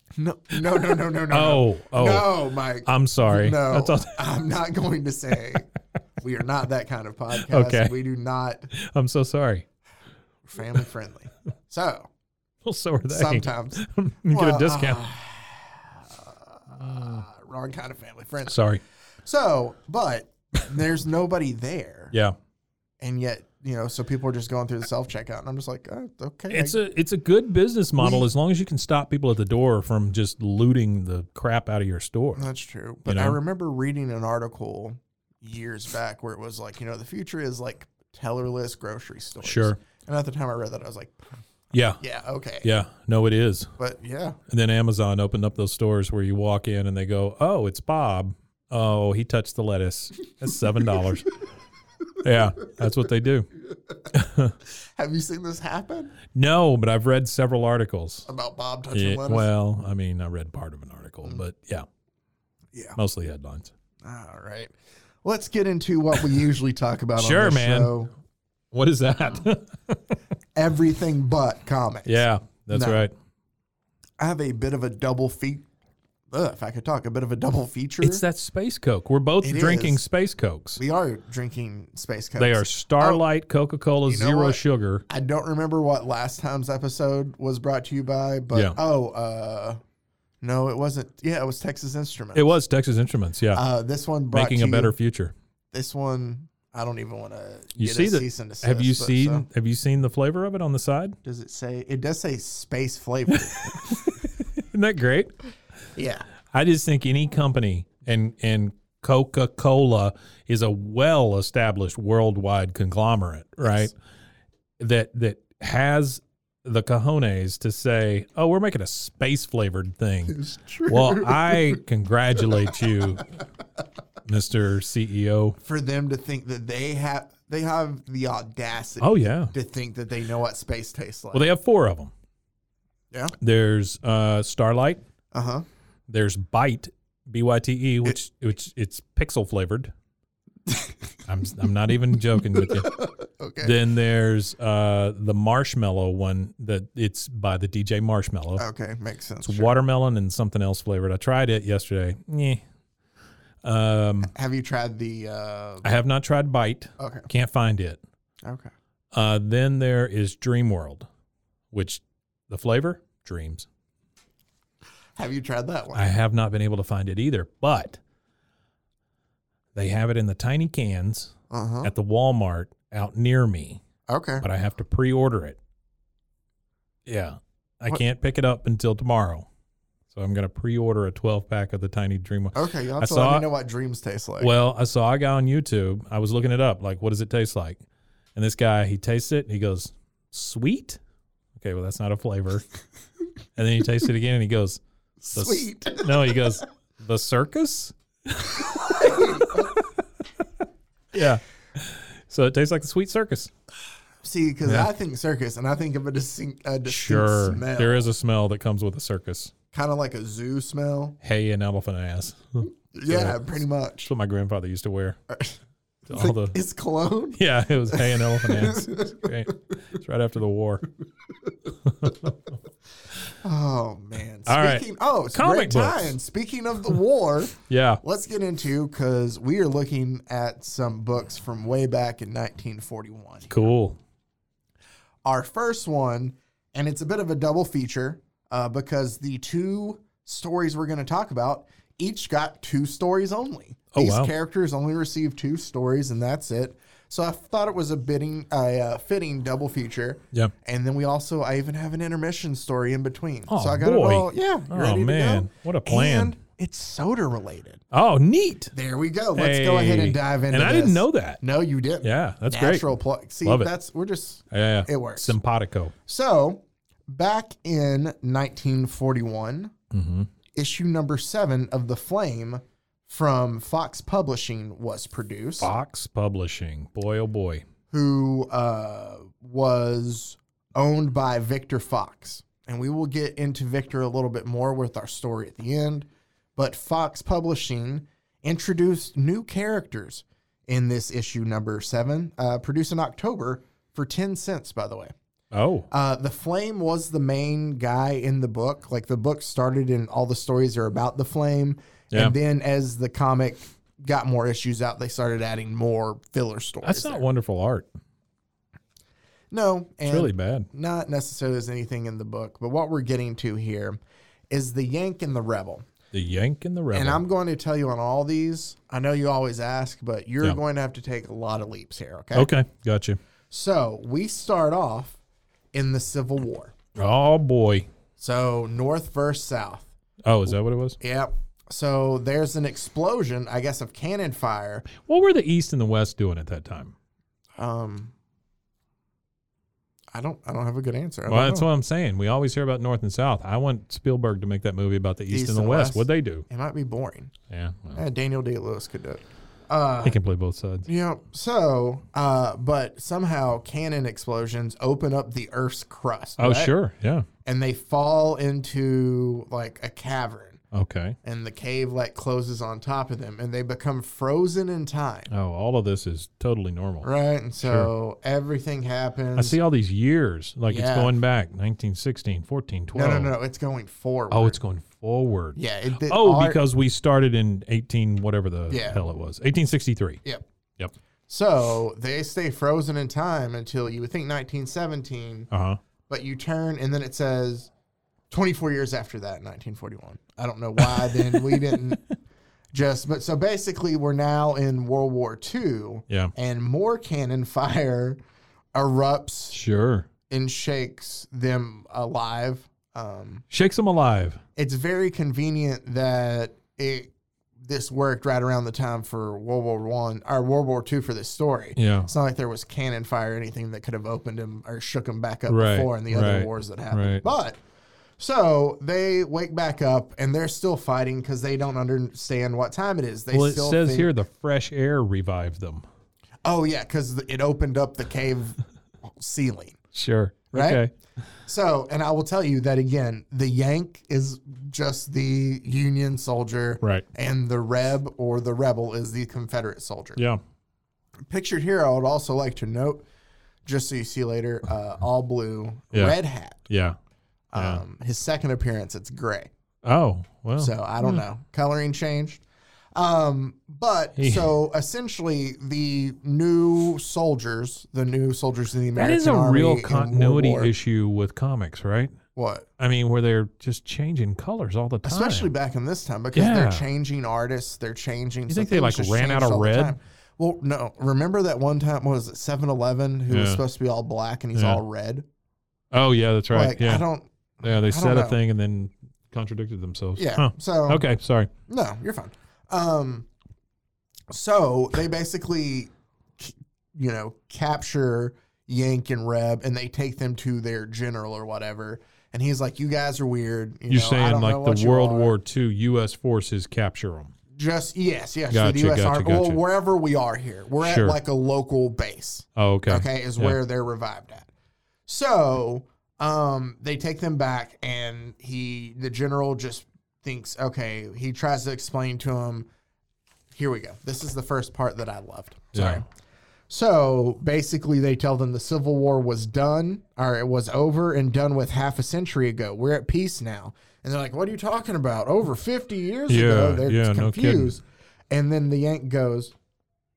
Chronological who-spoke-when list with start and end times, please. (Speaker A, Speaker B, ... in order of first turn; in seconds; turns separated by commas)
Speaker A: 0.1-8.7, Speaker B: 0.8-4.3, Speaker B: 7.3-8.0, Speaker B: 8.7-9.7, Speaker A: 10.4-12.1, Speaker B: 12.6-15.1, Speaker A: 13.0-18.7, Speaker B: 16.8-17.2, Speaker B: 18.5-18.8, Speaker A: 19.2-22.1, Speaker A: 23.0-26.8, Speaker B: 26.5-32.5, Speaker A: 28.0-28.3, Speaker A: 32.4-41.2, Speaker B: 33.0-33.4, Speaker B: 39.4-39.8, Speaker B: 41.7-42.0, Speaker A: 42.0-42.7, Speaker B: 42.6-43.7, Speaker A: 43.8-44.4, Speaker B: 44.5-51.3, Speaker B: 52.2-53.5, Speaker B: 54.1-54.5, Speaker A: 55.0-56.1, Speaker B: 56.3-58.3, Speaker A: 58.3-59.5, Speaker B: 58.9-61.9, Speaker A: 62.7-63.0, Speaker B: 63.0-63.7, Speaker A: 64.0-64.7, Speaker A: 65.2-68.1, Speaker B: 67.2-68.0, Speaker B: 68.7-70.1, Speaker A: 70.5-73.1, Speaker B: 72.0-73.1, Speaker A: 74.2-75.6, Speaker A: 76.3-78.2, Speaker B: 78.0-80.8, Speaker A: 79.4-80.0, Speaker A: 80.8-83.2, Speaker B: 82.4-85.0, Speaker A: 84.0-89.8, Speaker A: 90.4-92.5, Speaker B: 92.3-93.6, Speaker A: 93.5-94.9, Speaker B: 94.3-95.3, Speaker A: 95.7-99.5, Speaker B: 97.8-101.2, Speaker A: 101.2-104.1, Speaker B: 103.5-105.3, Speaker A: 105.9-106.2, Speaker B: 106.5-113.9, Speaker A: 113.6-113.9, Speaker B: 114.8-123.3, Speaker A: 120.3-121.8, Speaker A: 122.7-123.2, Speaker B: 124.2-125.6, Speaker A: 125.6-131.5, Speaker B: 129.0-129.5, Speaker B: 131.3-132.1, Speaker B: 133.4-135.0, Speaker A: 135.3-135.6, Speaker B: 136.1-139.9, Speaker B: 141.3-143.0, Speaker A: 142.6-143.8, Speaker B: 143.6-148.6, Speaker A: 148.6-149.8, Speaker B: 149.4-152.6, Speaker B: 153.6-154.3, Speaker A: 154.2-155.9, Speaker B: 155.8-158.0, Speaker A: 157.0-157.3, Speaker A: 158.4-158.7, Speaker B: 159.1-161.1, Speaker B: 161.7-163.7, Speaker A: 165.2-166.1, Speaker B: 165.9-168.0, Speaker B: 169.7-173.8, Speaker A: 171.5-171.9, Speaker A: 174.1-174.4, Speaker B: 174.4-175.6, Speaker B: 177.1-179.5, Speaker B: 180.1-183.5, Speaker A: 182.5-184.5, Speaker B: 184.4-187.8, Speaker B: 188.3-191.0, Speaker B: 191.6-192.6, Speaker B: 193.6-194.8, Speaker A: 195.2-196.5, Speaker B: 195.3-200.4, Speaker A: 198.7-199.8, Speaker B: 201.1-203.5, Speaker A: 204.2-208.0, Speaker B: 204.6-204.9, Speaker B: 206.8-209.5, Speaker A: 209.7-211.2, Speaker B: 211.2-213.5, Speaker A: 212.9-214.1, Speaker B: 214.0-215.2, Speaker A: 215.3-219.6, Speaker B: 216.1-216.6, Speaker B: 217.3-220.8, Speaker B: 221.8-222.3, Speaker A: 223.3-233.6, Speaker B: 224.4-226.2, Speaker B: 227.7-228.0, Speaker B: 233.5-234.0, Speaker A: 235.2-257.8, Speaker B: 243.9-244.3, Speaker B: 253.5-256.4, Speaker B: 257.9-258.7, Speaker A: 258.7-265.4, Speaker B: 259.3-261.4, Speaker B: 262.0-262.9, Speaker B: 263.4-263.7, Speaker B: 264.5-265.9, Speaker A: 266.1-269.7, Speaker B: 269.9-270.3, Speaker A: 270.5-275.7, Speaker B: 275.6-277.6, Speaker A: 277.9-295.1, Speaker B: 295.5-295.9, Speaker A: 295.9-307.2, Speaker B: 306.8-307.9, Speaker A: 309.5-314.0, Speaker B: 310.1-310.7, Speaker A: 314.5-315.9, Speaker B: 316.1-317.2, Speaker A: 316.9-322.5, Speaker B: 322.3-323.2, Speaker A: 323.5-325.2, Speaker A: 325.7-326.7, Speaker B: 326.9-327.9, Speaker A: 328.2-329.9, Speaker B: 330.2-331.0, Speaker A: 331.0-334.9, Speaker B: 334.9-336.9, Speaker A: 337.6-338.1, Speaker A: 340.1-341.7, Speaker B: 341.3-346.4, Speaker A: 345.3-347.3, Speaker B: 347.5-348.0, Speaker A: 347.9-350.2, Speaker B: 350.0-350.9, Speaker A: 350.9-356.7, Speaker B: 356.4-357.3, Speaker A: 357.4-360.6, Speaker B: 360.7-361.2, Speaker A: 361.2-365.3, Speaker B: 365.3-367.1, Speaker A: 367.0-369.6, Speaker B: 367.6-367.9, Speaker B: 369.4-373.3, Speaker A: 370.7-371.1, Speaker A: 372.9-374.6, Speaker B: 374.3-380.2, Speaker A: 375.6-376.6, Speaker A: 378.7-379.0, Speaker A: 381.3-385.5, Speaker B: 385.5-385.8, Speaker A: 386.1-387.7, Speaker A: 388.3-392.0, Speaker B: 390.8-391.9, Speaker A: 392.7-398.2, Speaker A: 398.7-399.6, Speaker B: 399.5-400.1, Speaker A: 400.3-403.4, Speaker B: 403.5-404.4, Speaker A: 404.6-407.1, Speaker A: 407.6-417.6, Speaker B: 411.8-412.1, Speaker B: 415.5-417.2, Speaker A: 418.2-424.1, Speaker B: 423.3-425.8, Speaker A: 426.4-429.8, Speaker B: 429.9-430.9, Speaker A: 430.5-430.8, Speaker A: 431.4-440.2, Speaker B: 440.1-440.4, Speaker A: 441.3-443.0, Speaker A: 443.6-446.6, Speaker B: 446.7-447.0, Speaker A: 447.5-449.5, Speaker B: 447.5-447.8, Speaker B: 449.8-451.2, Speaker A: 450.6-452.4, Speaker A: 452.9-460.7, Speaker B: 454.2-454.6, Speaker B: 459.0-462.1, Speaker A: 462.3-462.6, Speaker B: 462.8-465.5, Speaker A: 465.0-475.2, Speaker B: 466.3-466.9, Speaker B: 468.5-469.9, Speaker B: 473.3-473.6, Speaker B: 474.5-474.8, Speaker B: 475.9-477.0, Speaker A: 476.5-478.4, Speaker B: 477.6-481.5, Speaker A: 480.1-481.0, Speaker A: 481.7-483.3, Speaker A: 484.3-495.3, Speaker B: 493.9-497.3, Speaker A: 497.5-504.5, Speaker B: 498.5-499.6, Speaker B: 500.8-501.2, Speaker B: 502.6-503.6, Speaker A: 505.1-512.7, Speaker A: 513.5-516.0, Speaker B: 515.7-516.0, Speaker A: 516.7-529.5, Speaker B: 526.3-527.7